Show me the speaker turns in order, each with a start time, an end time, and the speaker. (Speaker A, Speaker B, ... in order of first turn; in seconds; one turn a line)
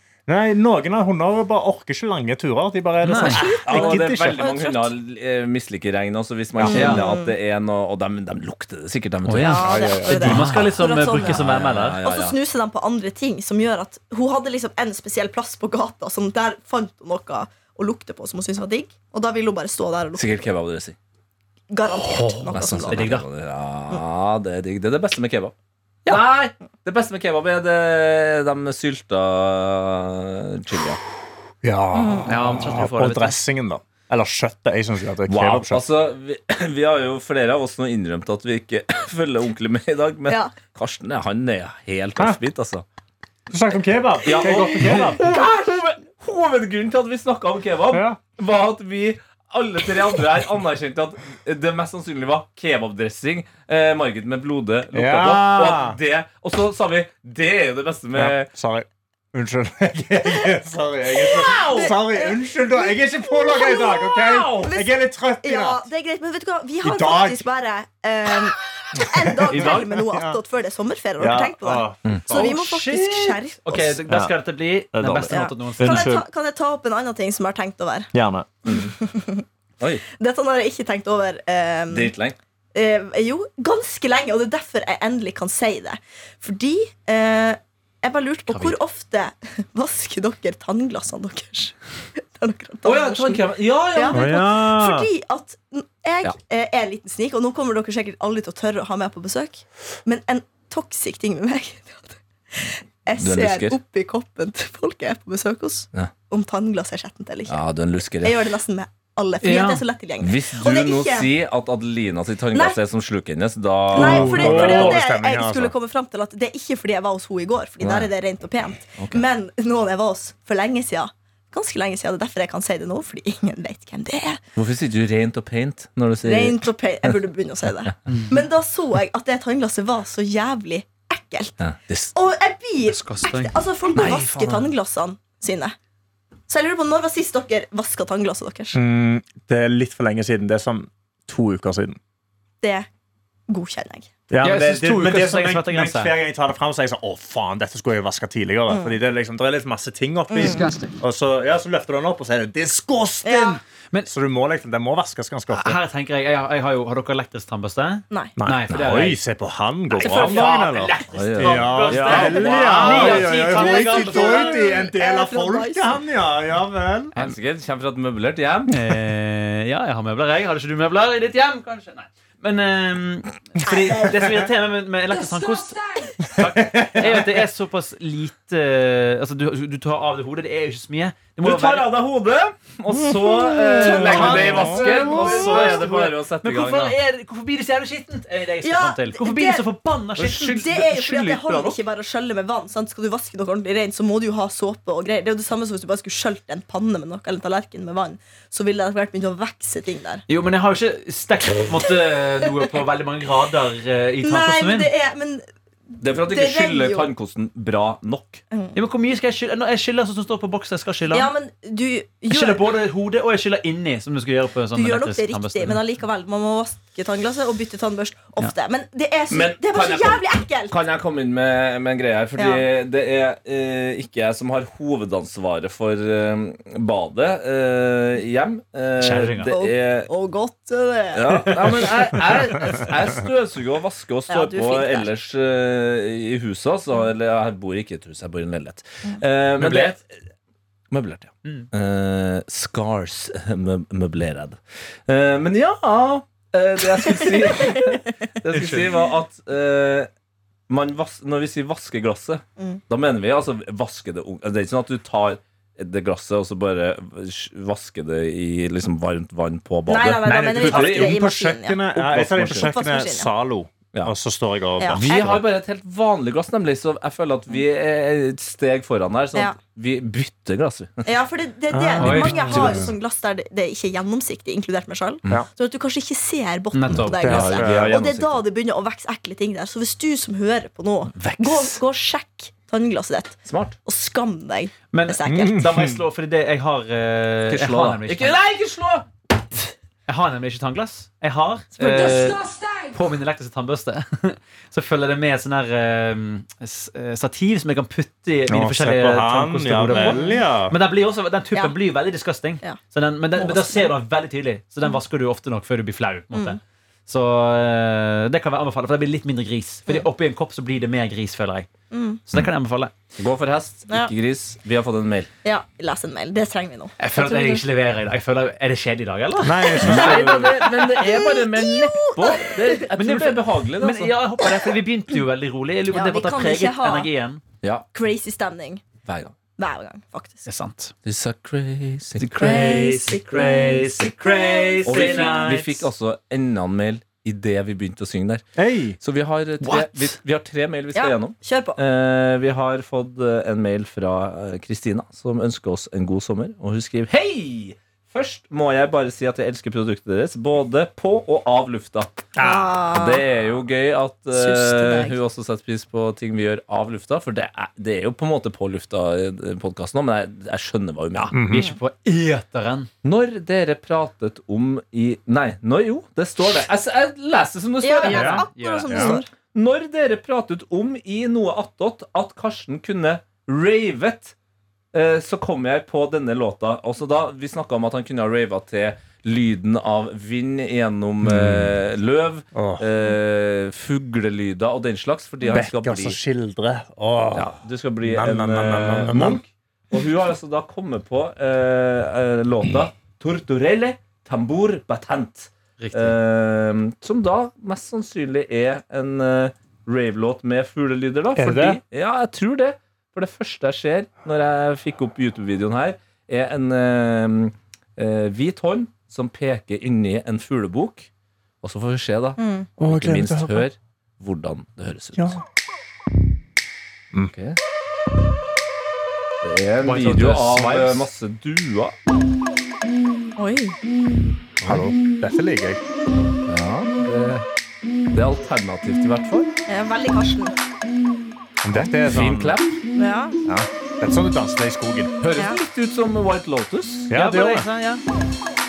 Speaker A: 0.3-4.5
Speaker B: 3.0-3.4
Speaker C: 3.1-4.9
Speaker D: 3.6-12.3
Speaker A: 6.6-6.8
Speaker C: 6.6-7.3
Speaker B: 6.7-7.0
Speaker B: 9.2-12.0
Speaker C: 9.4-11.4
Speaker A: 9.6-10.4
Speaker C: 12.0-20.4
Speaker D: 20.1-20.9
Speaker C: 21.7-23.2
Speaker D: 22.2-25.5
Speaker B: 22.3-23.2
Speaker D: 26.1-31.0
Speaker A: 31.6-35.8
Speaker C: 31.9-32.3
Speaker B: 32.3-33.4
Speaker D: 35.3-42.8
Speaker C: 40.3-40.5
Speaker A: 43.5-45.3
Speaker D: 44.2-58.5
Speaker A: 47.9-48.2
Speaker A: 54.9-56.0
Speaker A: 58.1-65.8
Speaker D: 61.2-61.9
Speaker C: 61.2-74.0
Speaker D: 64.2-64.7
Speaker A: 66.8-67.4
Speaker A: 68.9-70.4
Speaker B: 69.5-69.9
Speaker A: 71.2-72.5
Speaker B: 72.3-76.2
Speaker A: 74.1-74.3
Speaker A: 74.9-76.2
Speaker C: 75.3-78.1
Speaker A: 78.1-78.5
Speaker D: 78.7-78.9
Speaker C: 78.7-79.4
Speaker D: 79.8-80.0
Speaker C: 80.1-82.1
Speaker D: 81.9-82.4
Speaker C: 82.7-107.6
Speaker D: 92.8-94.4
Speaker A: 94.1-95.1
Speaker D: 103.2-103.8
Speaker D: 107.5-108.5
Speaker C: 108.2-111.3
Speaker B: 109.4-109.8
Speaker D: 110.2-115.0
Speaker C: 112.5-112.8
Speaker A: 113.9-115.7
Speaker C: 113.9-124.4
Speaker D: 117.8-118.1
Speaker D: 119.0-119.2
Speaker D: 124.5-126.6
Speaker C: 126.2-131.6
Speaker B: 128.1-128.4
Speaker D: 131.6-132.1
Speaker C: 132.1-135.7
Speaker B: 132.8-133.6
Speaker D: 133.9-134.7
Speaker C: 136.5-138.8
Speaker A: 138.7-142.0
Speaker C: 142.6-142.9
Speaker C: 143.5-144.1
Speaker A: 144.3-155.8
Speaker B: 144.4-146.1
Speaker C: 148.7-148.9
Speaker C: 150.3-150.6
Speaker E: 150.4-151.0
Speaker C: 153.2-153.6
Speaker B: 155.5-159.2
Speaker A: 158.4-167.1
Speaker B: 159.9-164.6
Speaker C: 160.0-160.5
Speaker D: 161.1-163.4
Speaker C: 163.1-166.0
Speaker D: 167.2-168.7
Speaker B: 168.7-181.9
Speaker C: 173.7-174.2
Speaker E: 175.1-176.2
Speaker A: 176.3-177.3
Speaker D: 181.4-186.9
Speaker C: 183.1-185.0
Speaker A: 183.8-185.7
Speaker B: 183.8-190.6
Speaker C: 188.6-189.6
Speaker D: 190.2-191.8
Speaker C: 190.4-200.2
Speaker B: 200.3-204.9
Speaker C: 204.2-205.4
Speaker D: 206.0-208.4
Speaker C: 206.0-207.1
Speaker C: 208.5-208.8
Speaker B: 208.7-211.3
Speaker C: 211.1-212.6
Speaker B: 212.3-215.8
Speaker C: 214.7-220.8
Speaker D: 219.3-230.1
Speaker C: 222.4-222.6
Speaker B: 229.0-229.5
Speaker C: 229.5-231.9
Speaker D: 231.1-240.2
Speaker C: 234.3-235.1
Speaker B: 239.6-240.0
Speaker D: 240.9-250.1
Speaker B: 241.4-241.7
Speaker B: 248.5-248.9
Speaker D: 250.7-261.2
Speaker C: 259.9-261.8
Speaker A: 260.2-265.4
Speaker D: 261.9-262.7
Speaker C: 262.5-263.3
Speaker C: 264.8-265.4
Speaker D: 264.9-271.1
Speaker C: 271.0-285.6
Speaker A: 271.7-272.9
Speaker B: 272.0-272.8
Speaker B: 276.7-277.5
Speaker A: 277.2-277.9
Speaker D: 277.2-278.4
Speaker D: 281.1-281.8
Speaker D: 283.5-283.8
Speaker B: 284.9-288.4
Speaker A: 285.3-286.0
Speaker D: 287.5-289.1
Speaker B: 290.1-292.4
Speaker E: 291.8-293.0
Speaker C: 291.8-292.3
Speaker B: 292.9-311.7
Speaker A: 298.5-300.7
Speaker C: 299.9-300.4
Speaker C: 303.4-303.9
Speaker C: 306.3-306.6
Speaker C: 311.9-312.2
Speaker B: 312.2-312.9
Speaker D: 313.2-315.3
Speaker C: 315.4-317.6
Speaker B: 317.0-320.3
Speaker A: 319.4-320.6
Speaker C: 319.8-322.9
Speaker D: 319.8-324.1
Speaker B: 322.9-327.4
Speaker C: 325.9-327.1
Speaker D: 327.6-327.9
Speaker C: 327.9-328.8
Speaker D: 329.1-329.3
Speaker C: 329.6-330.4
Speaker B: 330.4-330.9
Speaker D: 331.0-332.9
Speaker B: 332.1-335.9
Speaker C: 332.4-335.6
Speaker D: 334.8-338.4
Speaker A: 338.6-339.0
Speaker D: 339.0-352.2
Speaker B: 339.6-340.2
Speaker C: 340.9-341.8
Speaker A: 352.4-352.7
Speaker C: 352.4-353.2
Speaker D: 352.9-361.4
Speaker C: 354.3-355.2
Speaker A: 361.3-361.7
Speaker B: 361.5-362.9
Speaker D: 363.0-368.5
Speaker C: 367.8-369.3
Speaker A: 368.1-369.2
Speaker B: 368.1-369.1
Speaker D: 369.1-374.3
Speaker D: 374.9-386.2
Speaker A: 381.2-381.7
Speaker A: 382.5-382.8
Speaker A: 385.5-387.5
Speaker D: 387.3-411.1
Speaker A: 388.0-389.4
Speaker B: 395.8-396.1
Speaker A: 401.4-401.8
Speaker D: 411.6-415.4
Speaker C: 412.4-412.7
Speaker A: 412.8-413.6
Speaker D: 417.3-417.6
Speaker D: 419.4-421.9
Speaker B: 419.8-421.1
Speaker C: 423.4-423.8
Speaker D: 424.6-424.9
Speaker A: 424.6-425.8
Speaker D: 426.5-427.4
Speaker D: 428.1-429.5
Speaker C: 429.7-430.6
Speaker A: 431.6-432.6
Speaker D: 431.8-432.8
Speaker C: 432.9-433.4
Speaker A: 433.4-435.1
Speaker D: 435.2-437.1
Speaker A: 437.1-437.7
Speaker B: 437.1-438.0